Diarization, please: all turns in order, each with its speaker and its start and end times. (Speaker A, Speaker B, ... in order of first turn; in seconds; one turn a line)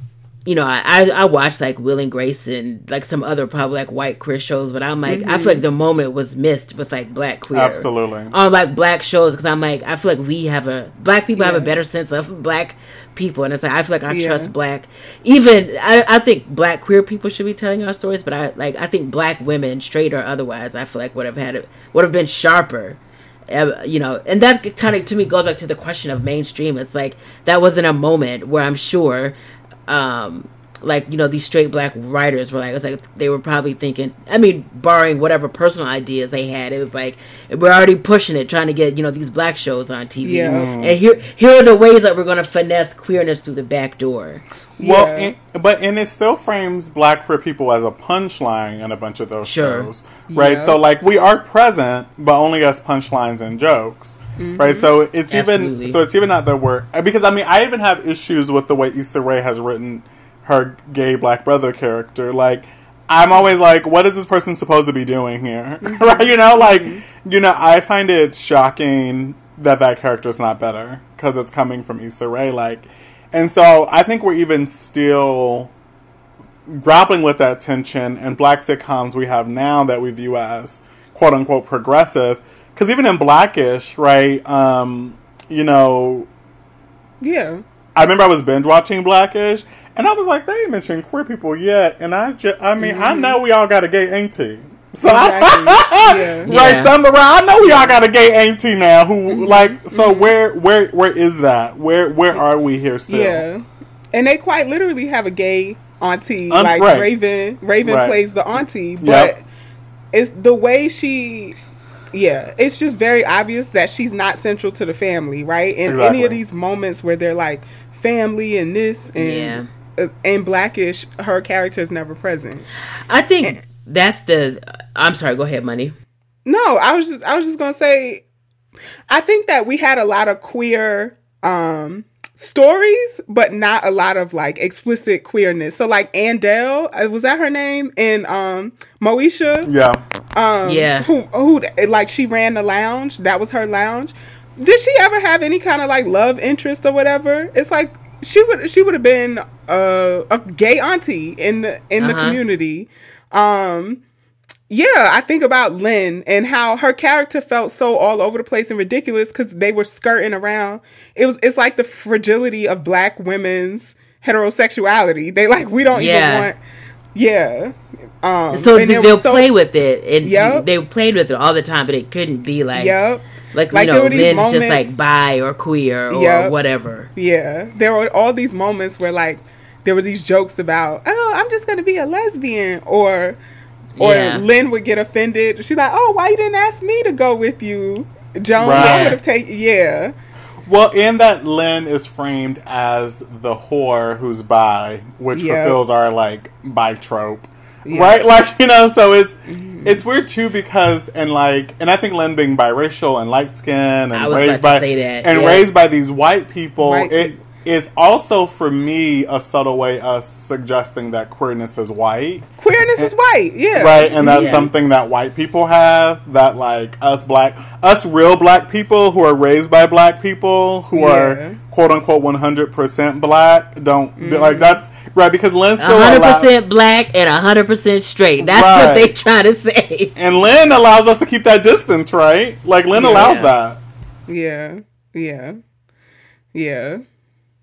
Speaker A: 0.5-23.0
Speaker B: 5.1-5.6
Speaker C: 7.5-8.3
Speaker B: 11.4-11.7
Speaker B: 14.1-14.5
Speaker A: 23.5-29.4
Speaker A: 29.9-44.4
Speaker B: 40.2-40.7
Speaker C: 40.5-41.0
Speaker B: 44.8-45.3
Speaker C: 44.8-75.7
Speaker A: 49.5-49.9
Speaker B: 50.3-50.8
Speaker B: 54.4-54.9
Speaker A: 55.3-56.0
Speaker B: 65.8-67.0
Speaker C: 76.7-86.3
Speaker B: 87.2-87.6
Speaker C: 88.0-103.4
Speaker B: 92.8-93.4
Speaker B: 95.0-96.5
Speaker A: 96.5-96.9
Speaker B: 99.3-100.3
Speaker B: 103.1-109.4
Speaker C: 106.5-107.1
Speaker C: 107.8-108.2
Speaker C: 109.0-109.3
Speaker B: 110.1-111.6
Speaker B: 112.1-122.7
Speaker C: 115.9-116.4
Speaker A: 119.2-119.7
Speaker A: 123.1-126.0
Speaker B: 126.5-128.2
Speaker B: 129.1-139.7
Speaker C: 139.7-140.0
Speaker B: 140.3-154.0
Speaker A: 140.7-141.1
Speaker A: 152.0-152.4
Speaker B: 154.7-166.6
Speaker A: 165.9-166.5
Speaker B: 167.2-169.5
Speaker A: 168.5-173.0
Speaker B: 170.2-170.7
Speaker B: 172.8-174.9
Speaker A: 173.5-177.1
Speaker B: 176.1-176.5
Speaker B: 177.2-183.4
Speaker A: 184.0-184.5
Speaker B: 184.0-190.1
Speaker C: 188.6-189.2
Speaker A: 188.7-189.2
Speaker C: 190.7-212.5
Speaker B: 195.3-195.8
Speaker B: 197.8-198.2
Speaker B: 199.5-200.0
Speaker A: 204.1-205.7
Speaker B: 206.8-207.4
Speaker B: 212.6-214.6
Speaker C: 213.7-226.5
Speaker A: 214.2-214.7
Speaker B: 220.9-221.6
Speaker B: 224.2-224.8
Speaker A: 225.8-230.2
Speaker C: 228.4-229.1
Speaker C: 230.2-233.8
Speaker B: 232.9-233.4
Speaker A: 233.1-233.5
Speaker B: 234.3-235.6
Speaker B: 236.5-237.0